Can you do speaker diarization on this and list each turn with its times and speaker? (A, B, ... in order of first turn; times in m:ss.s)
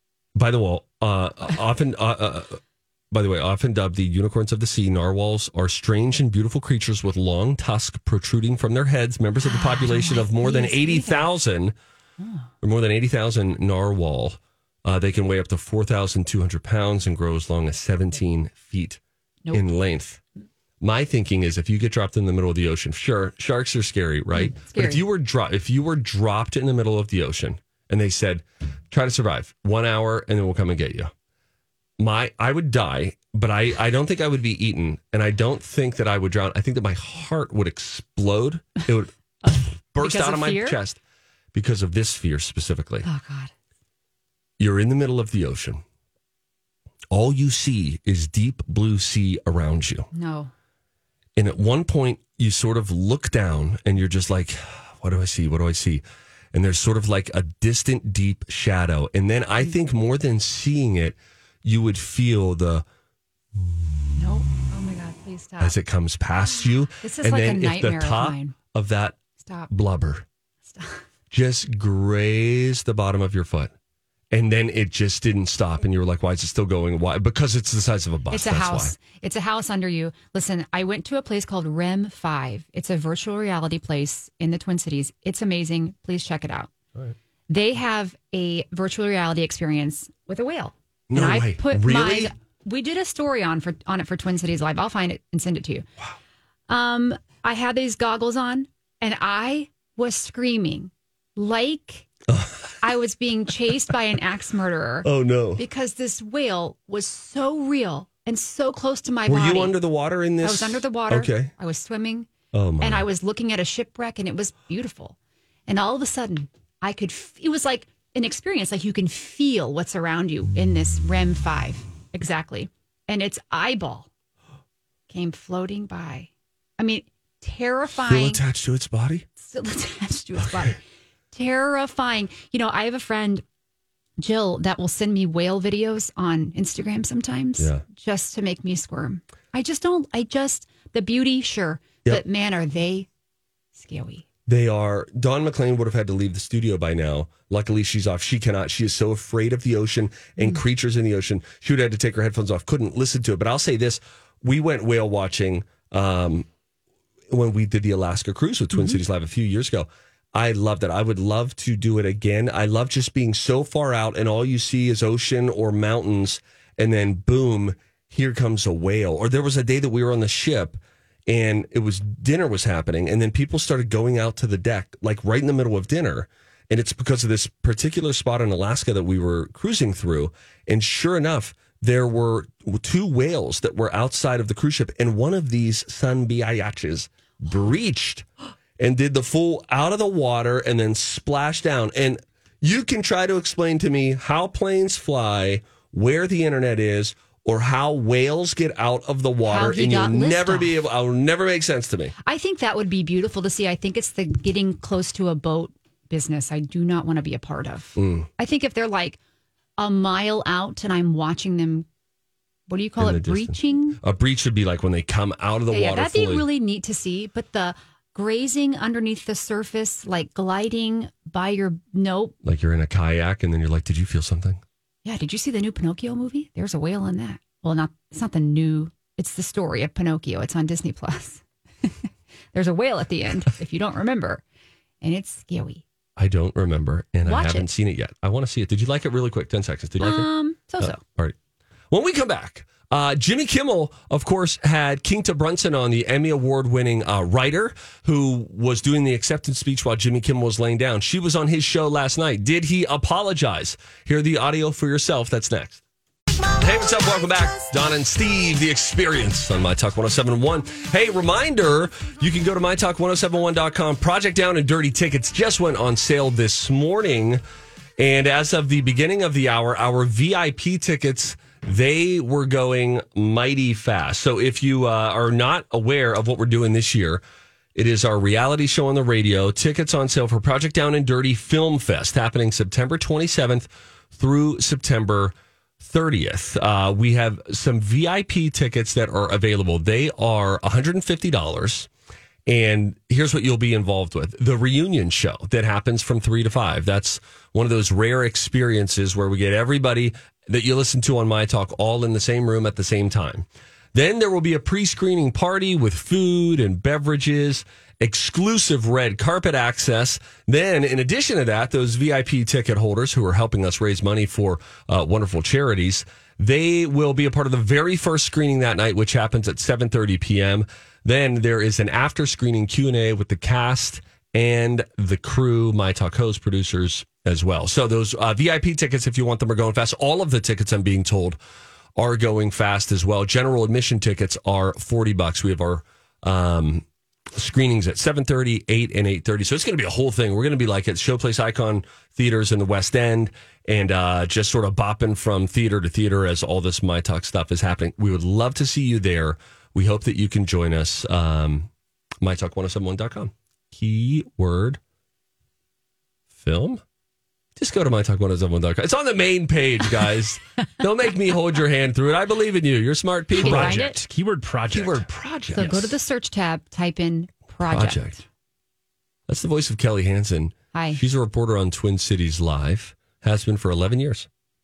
0:00.3-0:02.6 A
0:03.1-0:11.7 A
0:09.4-0:11.3 B
0:12.2-0:12.5 B
0:12.6-0:19.0 A
0:19.4-0:19.7 B
0:19.5-0:20.2 A
0:20.8-0:31.1 A
0:24.3-0:25.0 B
0:32.0-0:41.0 A
0:39.4-0:40.8 B
0:41.5-0:43.0 A
0:43.0-0:43.5 B
0:44.6-0:45.8 A
0:47.1-0:50.1 A
0:50.1-0:50.5 B
0:51.4-1:02.8 A
1:04.2-1:05.8 B
1:05.6-1:09.2 A
1:07.0-1:08.5 B
1:09.4-1:09.7 B
1:09.7-1:10.2 A
1:10.7-1:11.0 B
1:11.3-1:13.7 A
1:14.3-1:18.9 A
1:18.3-1:26.7 B
1:27.5-1:35.8 B
1:31.1-1:32.3 A
1:36.7-1:42.1 B
1:42.3-1:42.8 A
1:42.8-1:49.7 B
1:45.0-1:45.6 A
1:49.2-1:51.5 A
1:50.4-1:52.3 B
1:52.5-1:53.0 A
1:52.8-1:55.2 B
1:55.7-2:04.1 B
2:05.1-2:08.4 B
2:08.0-2:09.2 A
2:09.4-2:10.8 B
2:11.3-2:13.4 B
2:14.2-2:23.1 B
2:17.6-2:17.8 A
2:23.8-2:24.2 B
2:24.4-2:36.5 A
2:37.3-3:08.2 A
2:38.7-2:39.0 B
3:08.8-3:22.1 A
3:19.4-3:20.7 B
3:22.2-3:29.2 B
3:28.0-3:28.3 A
3:29.8-3:31.8 B
3:32.7-3:34.0 B
3:33.0-3:36.4 A
3:35.7-3:42.3 B
3:42.4-3:44.6 A
3:45.0-3:51.9 B
3:52.5-3:54.4 B
3:55.0-3:55.8 B
3:56.2-4:01.4 A
3:57.2-3:57.7 B
4:00.0-4:01.0 B
4:01.9-4:15.8 A
4:16.6-4:27.4 A
4:28.0-4:37.2 A
4:37.7-4:51.9 A
4:52.4-5:31.4 A
5:32.0-5:54.8 A
5:56.3-5:56.8 A
5:57.6-6:03.8 A
6:03.3-6:05.9 C
6:03.4-6:04.0 B
6:04.7-6:05.9 A
6:05.5-6:08.2 B
6:07.6-6:08.2 A
6:09.3-6:14.3 A
6:10.7-6:11.0 B